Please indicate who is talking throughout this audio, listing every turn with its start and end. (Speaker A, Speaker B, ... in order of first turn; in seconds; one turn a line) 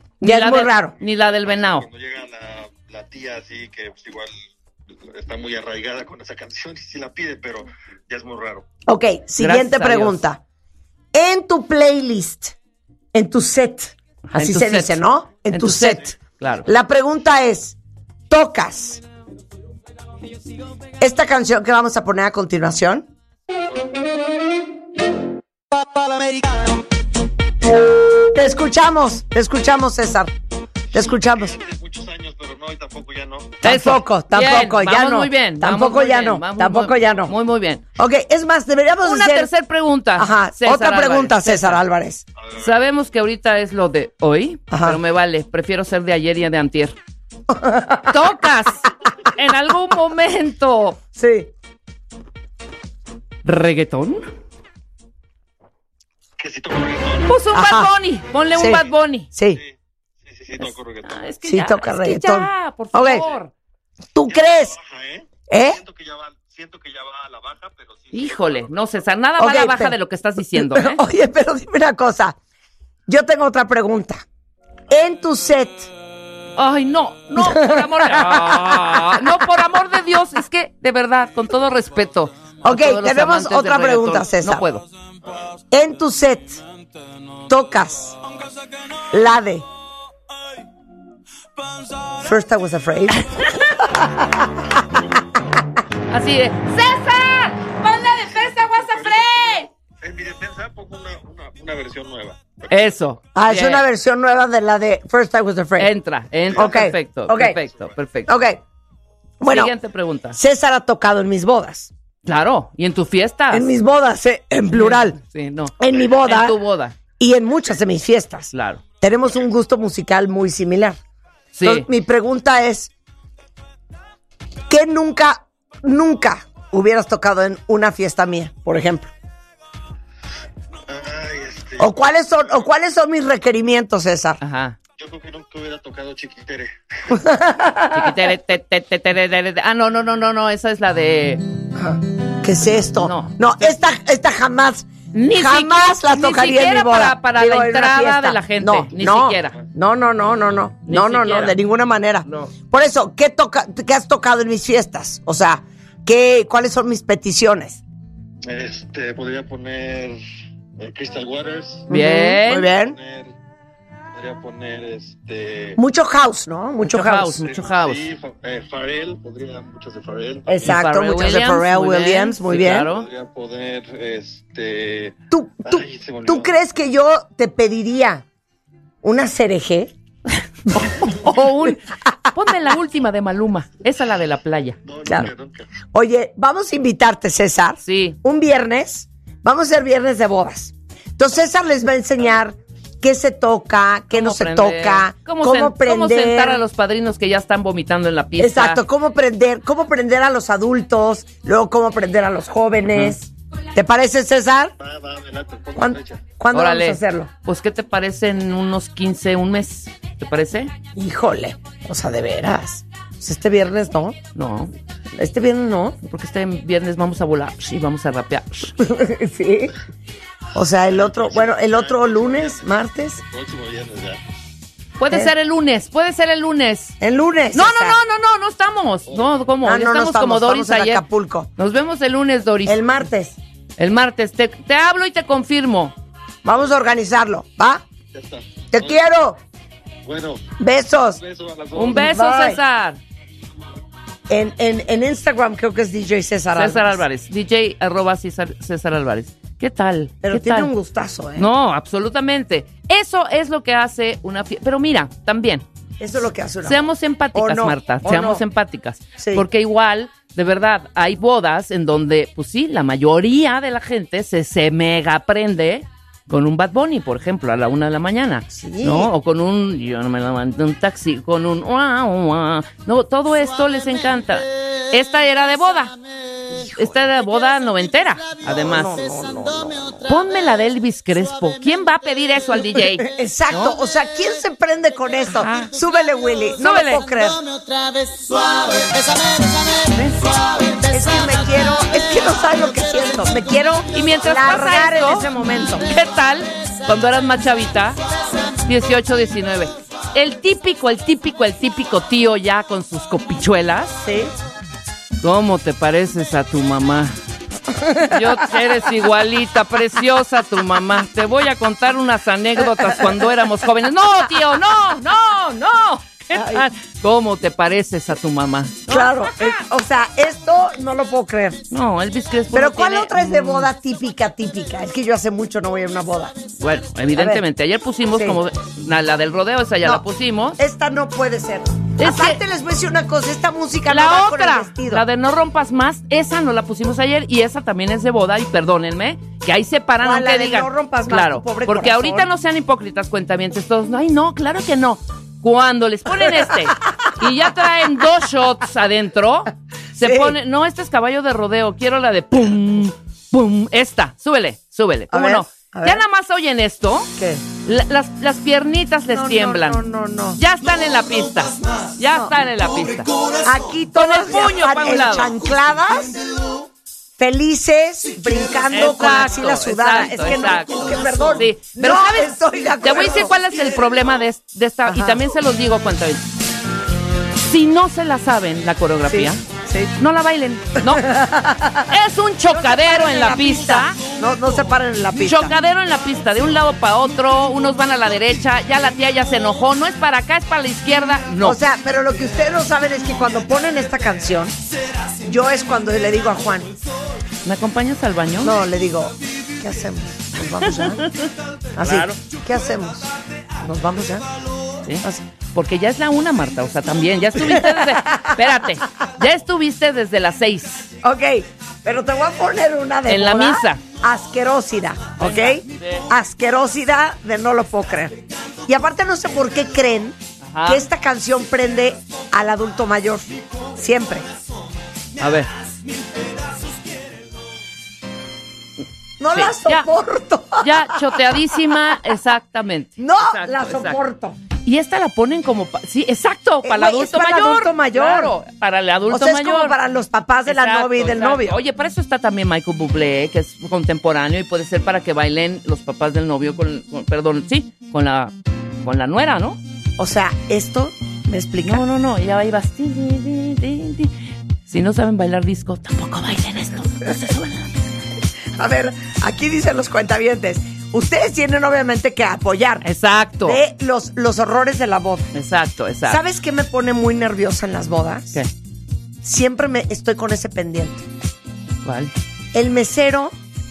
Speaker A: 0.2-1.9
Speaker B: 0.2-0.9
Speaker C: 1.0-8.7
Speaker B: 8.9-10.4
Speaker A: 9.4-10.2
Speaker B: 11.1-12.6
Speaker B: 13.1-16.1
Speaker A: 14.3-15.0
Speaker A: 15.5-16.7
Speaker B: 16.7-17.8
Speaker B: 18.3-19.0
Speaker B: 21.0-23.1
Speaker B: 28.3-30.3
Speaker B: 30.9-31.6
Speaker C: 30.9-33.6
Speaker B: 33.6-37.3
Speaker A: 33.6-37.8
Speaker B: 38.0-39.5
Speaker A: 39.0-41.8
Speaker B: 40.2-42.2
Speaker C: 42.4-42.8
Speaker A: 42.5-47.0
Speaker B: 44.7-45.0
Speaker B: 47.5-48.2
Speaker A: 48.1-51.0
Speaker B: 51.2-51.5
Speaker A: 53.5-54.3
Speaker C: 56.4-57.4
Speaker A: 57.3-59.3
Speaker B: 57.5-57.9
Speaker B: 58.5-59.6
Speaker C: 59.5-61.2
Speaker A: 61.0-63.5
Speaker B: 61.5-63.2
Speaker C: 63.0-63.4
Speaker B: 64.2-64.8
Speaker C: 64.3-68.8
Speaker B: 65.5-65.8
Speaker A: 68.1-71.0
Speaker B: 69.4-70.0
Speaker B: 70.5-72.4
Speaker B: 73.1-74.2
Speaker B: 74.9-75.9
Speaker A: 76.6-84.9
Speaker B: 77.4-79.5
Speaker B: 82.6-84.7
Speaker C: 85.2-85.5
Speaker B: 85.7-86.6
Speaker B: 87.5-88.2
Speaker B: 89.1-89.7
Speaker B: 92.2-94.5
Speaker A: 96.1-99.7
Speaker C: 98.3-102.9
Speaker A: 102.7-103.8
Speaker B: 103.3-105.9
Speaker A: 105.8-108.3
Speaker C: 106.5-106.9
Speaker B: 106.5-107.6
Speaker C: 107.5-108.0
Speaker B: 108.3-108.6
Speaker B: 109.4-109.8
Speaker A: 109.5-110.4
Speaker B: 110.3-111.9
Speaker A: 112.2-113.7
Speaker B: 113.5-115.2
Speaker A: 114.7-117.0
Speaker B: 115.8-116.6
Speaker B: 117.2-121.0
Speaker A: 118.5-118.8
Speaker A: 121.5-121.9
Speaker B: 121.6-122.9
Speaker B: 124.7-129.1
Speaker C: 130.9-132.5
Speaker B: 131.8-134.4
Speaker A: 134.4-134.8
Speaker C: 135.0-137.2
Speaker B: 137.1-138.2
Speaker A: 137.9-141.4
Speaker B: 141.8-157.8
Speaker A: 143.0-143.7
Speaker A: 145.1-149.6
Speaker A: 150.9-151.6
Speaker A: 152.3-152.5
Speaker C: 158.5-160.2
Speaker C: 160.8-161.9
Speaker A: 161.9-162.7
Speaker B: 161.9-163.0
Speaker C: 162.6-163.3
Speaker C: 164.1-165.8
Speaker B: 165.8-167.4
Speaker A: 166.9-168.1
Speaker C: 167.4-170.8
Speaker B: 170.5-172.9
Speaker A: 170.7-173.1
Speaker C: 172.8-176.5
Speaker B: 175.3-178.2
Speaker B: 179.0-179.9
Speaker B: 180.7-181.1
Speaker A: 180.7-184.8
Speaker C: 184.9-185.7
Speaker B: 185.1-185.3
Speaker B: 185.9-196.6
Speaker A: 187.8-188.2
Speaker A: 194.1-198.8
Speaker B: 198.4-204.7
Speaker A: 202.9-203.2
Speaker C: 204.8-206.3
Speaker B: 205.8-207.3
Speaker A: 206.5-210.7
Speaker B: 210.9-214.2
Speaker A: 214.3-214.7
Speaker B: 215.2-216.0
Speaker A: 216.0-218.8
Speaker B: 218.8-219.7
Speaker B: 220.5-223.2
Speaker C: 220.9-224.2
Speaker A: 225.0-226.9
Speaker B: 227.0-228.0
Speaker A: 227.5-231.0
Speaker B: 229.6-231.5
Speaker A: 231.6-232.9
Speaker B: 232.7-233.4
Speaker A: 233.8-235.9
Speaker B: 236.4-237.8
Speaker C: 238.1-239.0
Speaker B: 238.7-239.4
Speaker C: 240.1-240.5
Speaker B: 240.6-241.2
Speaker C: 241.2-242.1
Speaker A: 241.8-243.0
Speaker B: 241.9-242.6
Speaker B: 244.3-247.0
Speaker A: 246.6-250.7
Speaker B: 250.2-251.5
Speaker A: 251.4-255.7
Speaker B: 256.0-258.4
Speaker A: 256.6-275.9
Speaker B: 259.2-259.5
Speaker B: 268.5-269.1
Speaker B: 276.5-276.9
Speaker A: 276.8-279.0
Speaker B: 278.6-280.1
Speaker A: 280.1-283.8
Speaker B: 282.7-287.4
Speaker A: 285.3-285.7
Speaker A: 286.6-287.0
Speaker A: 289.8-290.3
Speaker B: 290.9-295.9
Speaker A: 293.9-295.3
Speaker A: 295.8-298.0
Speaker A: 298.7-304.0
Speaker B: 304.0-304.3
Speaker A: 305.2-307.2
Speaker B: 307.7-308.5
Speaker A: 308.0-319.5
Speaker B: 312.8-313.2
Speaker B: 316.3-316.6
Speaker B: 318.9-321.6
Speaker A: 321.7-323.7
Speaker B: 322.5-326.4
Speaker A: 326.6-330.6
Speaker B: 327.1-327.4
Speaker B: 328.1-328.4
Speaker B: 330.6-335.0
Speaker A: 332.0-332.4
Speaker A: 333.9-357.1
Speaker B: 340.0-342.3
Speaker B: 350.0-350.4
Speaker B: 355.1-356.0
Speaker B: 357.2-357.4
Speaker A: 357.6-359.8
Speaker B: 359.1-360.4
Speaker A: 360.4-363.1
Speaker B: 362.1-362.3
Speaker B: 363.4-366.2
Speaker A: 363.9-365.4
Speaker B: 367.2-373.3
Speaker A: 368.7-376.3
Speaker B: 374.9-375.2
Speaker A: 377.4-379.4
Speaker B: 379.1-379.9
Speaker A: 380.0-381.1
Speaker B: 380.8-382.0
Speaker A: 381.9-384.0
Speaker B: 382.5-385.5
Speaker A: 385.2-391.6
Speaker B: 391.4-394.6
Speaker B: 395.2-396.7
Speaker A: 397.4-398.6
Speaker B: 398.4-401.1
Speaker A: 400.7-401.2
Speaker B: 401.8-403.1
Speaker A: 401.8-402.2
Speaker B: 403.6-404.3
Speaker A: 404.9-410.9
Speaker B: 407.4-408.6
Speaker B: 411.0-424.3
Speaker A: 413.1-413.8
Speaker A: 415.2-416.1
Speaker A: 420.4-420.9
Speaker A: 425.2-425.5
Speaker B: 429.2-432.0
Speaker A: 429.3-429.9
Speaker A: 430.6-434.0
Speaker B: 433.0-434.4
Speaker A: 434.6-439.8
Speaker B: 436.6-438.4
Speaker B: 439.1-441.6
Speaker A: 440.5-449.6
Speaker B: 450.0-451.8
Speaker A: 451.6-454.1
Speaker A: 454.7-457.9
Speaker B: 458.5-462.9
Speaker A: 462.8-463.6
Speaker B: 463.4-465.3
Speaker A: 465.3-466.2
Speaker B: 466.1-468.4
Speaker B: 469.2-471.1
Speaker A: 471.8-472.1
Speaker B: 472.5-473.3